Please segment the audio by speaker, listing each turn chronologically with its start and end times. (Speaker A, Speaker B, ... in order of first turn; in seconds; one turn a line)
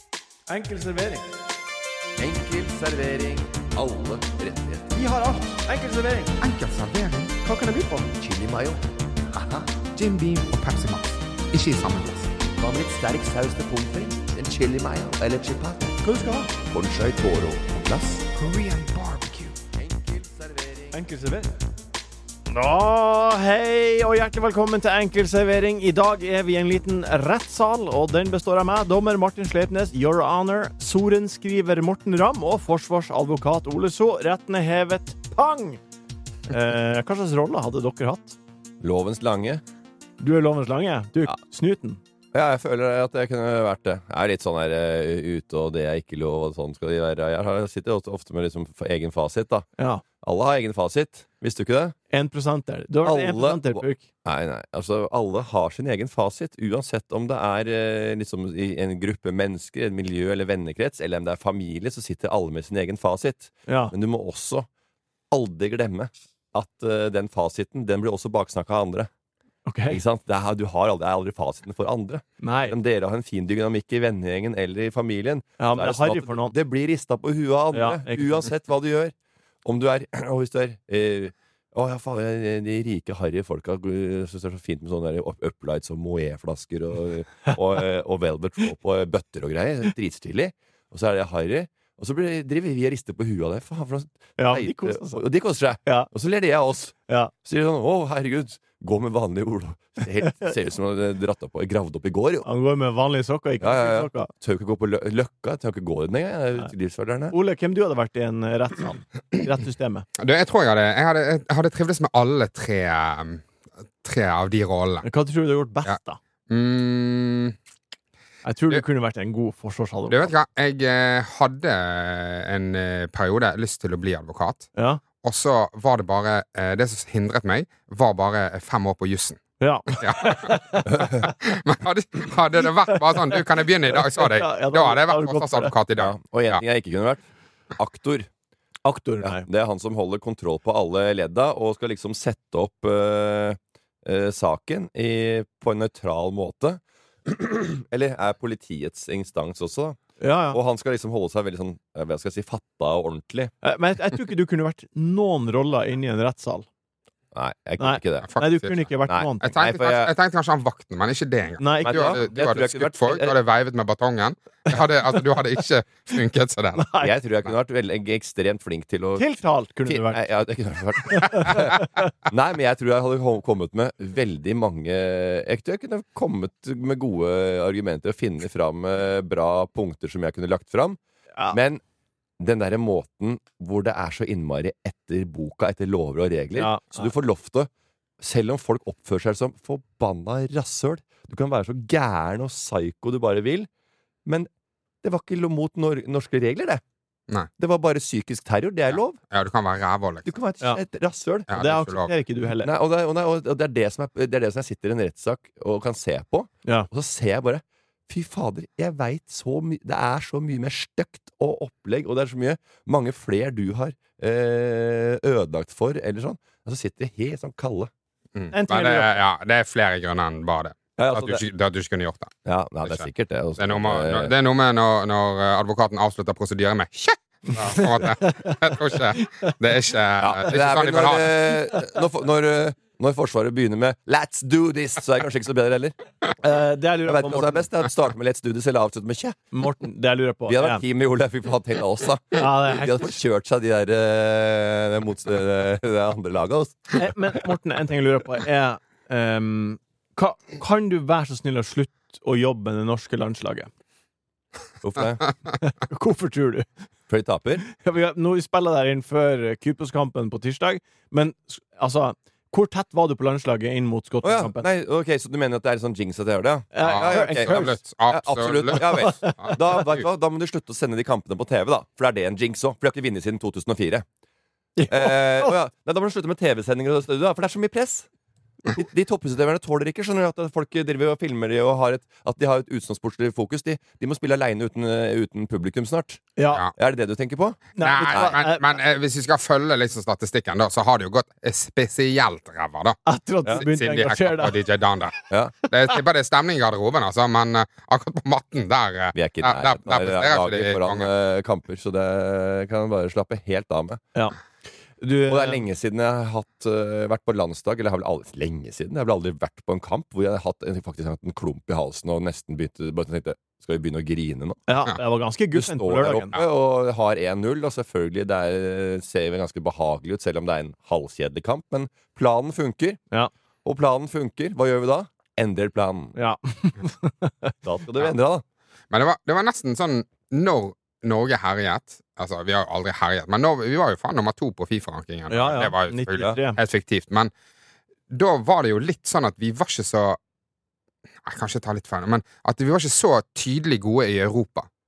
Speaker A: 0.5-1.3
Speaker B: 2.2-5.0
Speaker A: 4.9-6.3
Speaker C: 6.4-7.3
Speaker A: 7.4-8.1
Speaker B: 8.2-9.8
Speaker C: 9.9-12.3
Speaker B: 12.6-18.3
Speaker C: 18.4-19.6
Speaker B: 19.8-21.0
Speaker A: 20.9-21.5
Speaker A: 22.5-35.8
Speaker A: 36.5-38.4
Speaker B: 38.8-39.6
Speaker A: 40.2-42.0
Speaker B: 42.3-49.6
Speaker A: 49.8-50.0
Speaker B: 50.2-52.0
Speaker A: 52.1-54.0
Speaker B: 53.0-64.7
Speaker A: 63.7-63.9
Speaker B: 65.3-69.1
Speaker A: 69.7-70.0
Speaker B: 69.9-102.5
Speaker A: 72.4-72.8
Speaker A: 75.6-76.5
Speaker A: 77.7-78.4
Speaker A: 94.4-95.2
Speaker A: 95.8-96.1
Speaker A: 102.5-104.3
Speaker B: 103.6-107.3
Speaker A: 107.3-110.1
Speaker C: 110.2-113.4
Speaker C: 114.0-115.1
Speaker A: 115.0-116.2
Speaker C: 116.5-117.5
Speaker A: 118.5-120.3
Speaker C: 120.1-124.7
Speaker A: 124.8-125.0
Speaker C: 125.2-129.4
Speaker A: 129.6-131.1
Speaker C: 130.0-136.6
Speaker A: 134.2-135.7
Speaker B: 136.0-137.2
Speaker B: 137.8-138.3
Speaker A: 138.8-139.5
Speaker B: 139.2-150.0
Speaker A: 150.2-150.6
Speaker B: 150.5-153.5
Speaker A: 153.6-156.7
Speaker B: 157.3-158.3
Speaker A: 157.8-159.5
Speaker C: 158.3-158.9
Speaker B: 159.1-160.1
Speaker C: 159.4-166.9
Speaker A: 161.6-162.2
Speaker B: 161.8-163.4
Speaker A: 166.8-167.1
Speaker B: 167.0-169.3
Speaker A: 169.2-170.3
Speaker B: 169.8-181.0
Speaker A: 171.1-171.8
Speaker B: 181.5-181.8
Speaker B: 182.4-187.7
Speaker A: 186.6-187.1
Speaker B: 188.2-193.7
Speaker B: 195.0-196.8
Speaker B: 197.6-199.2
Speaker C: 199.3-200.3
Speaker B: 200.2-201.5
Speaker C: 201.5-202.1
Speaker A: 201.5-202.7
Speaker B: 202.6-217.9
Speaker C: 218.3-223.1
Speaker A: 218.5-219.2
Speaker B: 221.0-221.4
Speaker B: 222.4-224.3
Speaker C: 223.6-231.5
Speaker A: 227.6-229.5
Speaker B: 230.2-236.0
Speaker A: 236.4-237.7
Speaker B: 237.1-239.5
Speaker A: 239.5-240.8
Speaker B: 240.5-246.9
Speaker A: 242.4-243.1
Speaker A: 246.9-253.7
Speaker B: 254.8-255.2
Speaker A: 255.6-256.7
Speaker B: 257.1-257.6
Speaker A: 257.7-264.7
Speaker B: 264.2-274.1
Speaker A: 266.7-267.8
Speaker C: 266.8-270.0
Speaker A: 268.8-269.6
Speaker A: 274.8-275.6
Speaker B: 274.9-278.1
Speaker B: 278.7-288.4
Speaker A: 286.4-286.6
Speaker A: 287.8-288.6
Speaker C: 287.8-301.1
Speaker A: 293.1-294.6
Speaker B: 295.3-295.6
Speaker B: 299.1-304.0
Speaker A: 305.0-305.6
Speaker B: 305.3-314.6
Speaker A: 314.7-316.3
Speaker B: 315.5-323.0
Speaker B: 323.6-326.2
Speaker A: 326.1-327.5
Speaker B: 327.6-328.4
Speaker C: 328.9-337.3
Speaker A: 335.3-336.6
Speaker C: 338.1-340.2
Speaker C: 341.3-344.7